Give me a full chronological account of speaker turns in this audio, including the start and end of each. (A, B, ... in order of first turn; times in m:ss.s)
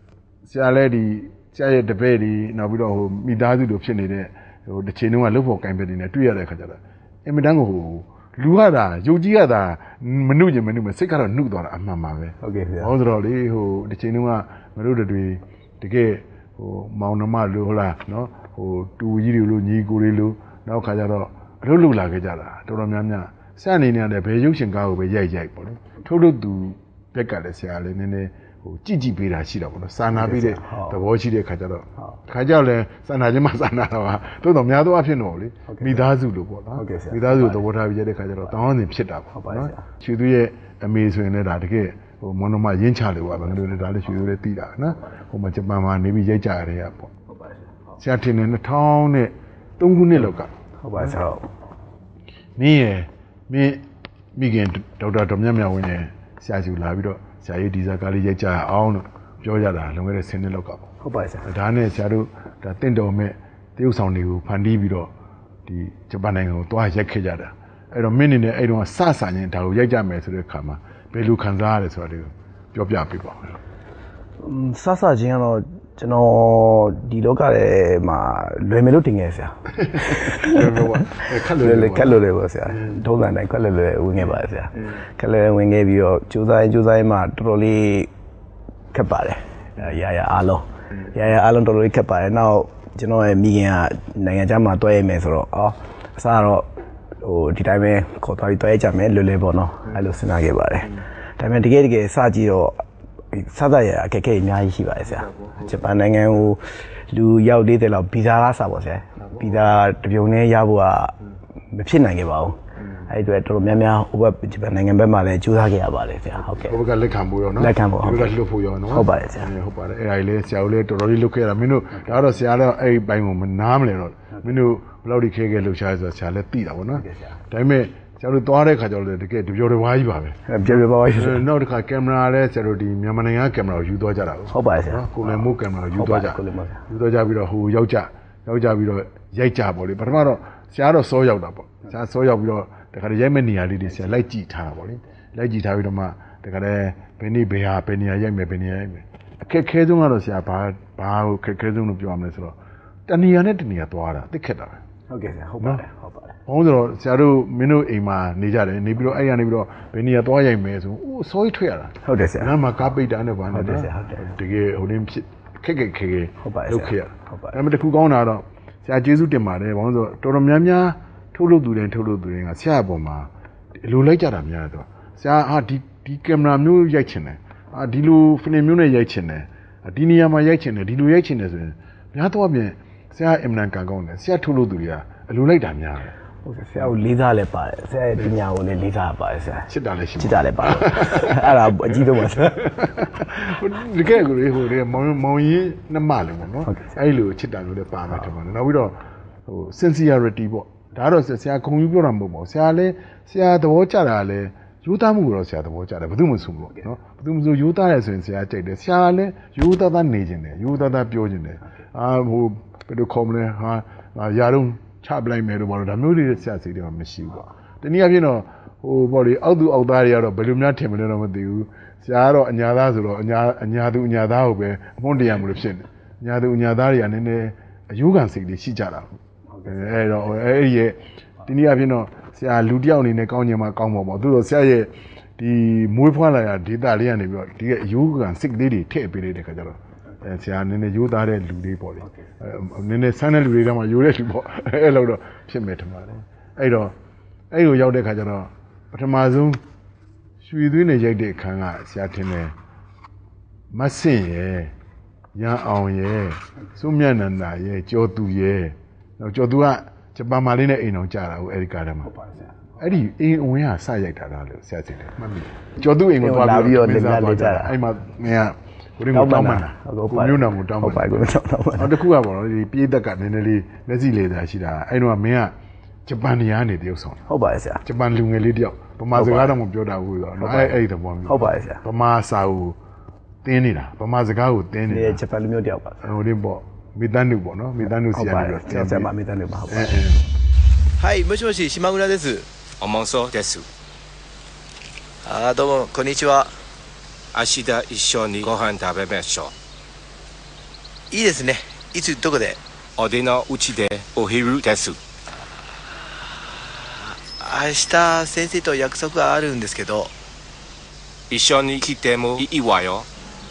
0:00.4-0:47.1 A
0:12.4-0:12.9 B
0:30.1-0:31.0 B
0:35.7-0:36.1 B
0:36.8-0:37.6 B
0:39.3-0:39.8 B
0:47.3-0:47.6 B
0:48.0-0:51.2 A
0:50.8-0:51.5 B
0:52.6-1:00.9 A
1:01.0-1:01.5 B
1:01.4-1:05.1 A
1:05.7-1:13.6 A
1:14.4-1:28.1 B
1:19.8-1:22.2 A
1:28.9-1:36.7 B
1:37.2-1:42.8 B
1:43.3-1:51.2 B
1:51.7-1:56.8 B
1:56.5-2:10.4 A
1:57.6-1:58.3 B
1:58.9-1:59.5 B
2:07.0-2:07.4 B
2:10.5-2:11.4 B
2:11.1-2:34.8 A
2:14.5-2:16.8 B
2:35.1-2:36.4 B
2:36.5-3:06.1 A
2:42.0-2:42.5 B
2:43.5-2:44.2 B
2:46.4-2:47.6 B
3:06.4-3:09.7 B
3:09.7-3:49.1 A
3:10.2-3:12.7 B
3:49.6-3:49.8 B
3:49.6-4:07.0 A
4:07.5-4:09.6 A
4:10.4-4:12.6 A
4:13.7-4:14.7 A
4:15.4-4:22.1 A
4:22.1-4:22.5 B
4:22.8-4:31.2 A
4:26.2-4:27.8 B
4:29.1-4:31.9 B
4:31.8-4:35.6 A
4:36.1-4:37.2 A
4:37.3-4:37.8 B
4:37.8-4:42.8 A
4:39.2-4:39.5 B
4:40.4-4:41.8 B
4:43.4-4:45.2 A
4:44.9-4:46.0 B
4:46.0-4:49.1 A
4:48.1-4:49.9 B
4:49.7-4:50.2 A
4:51.0-4:52.5 C
4:52.8-4:53.7 D
4:55.2-4:56.5 C
4:57.3-4:59.5 D
5:01.1-5:02.6 C
5:03.0-5:05.0 D
5:07.3-5:10.1 C
5:11.3-5:13.1 D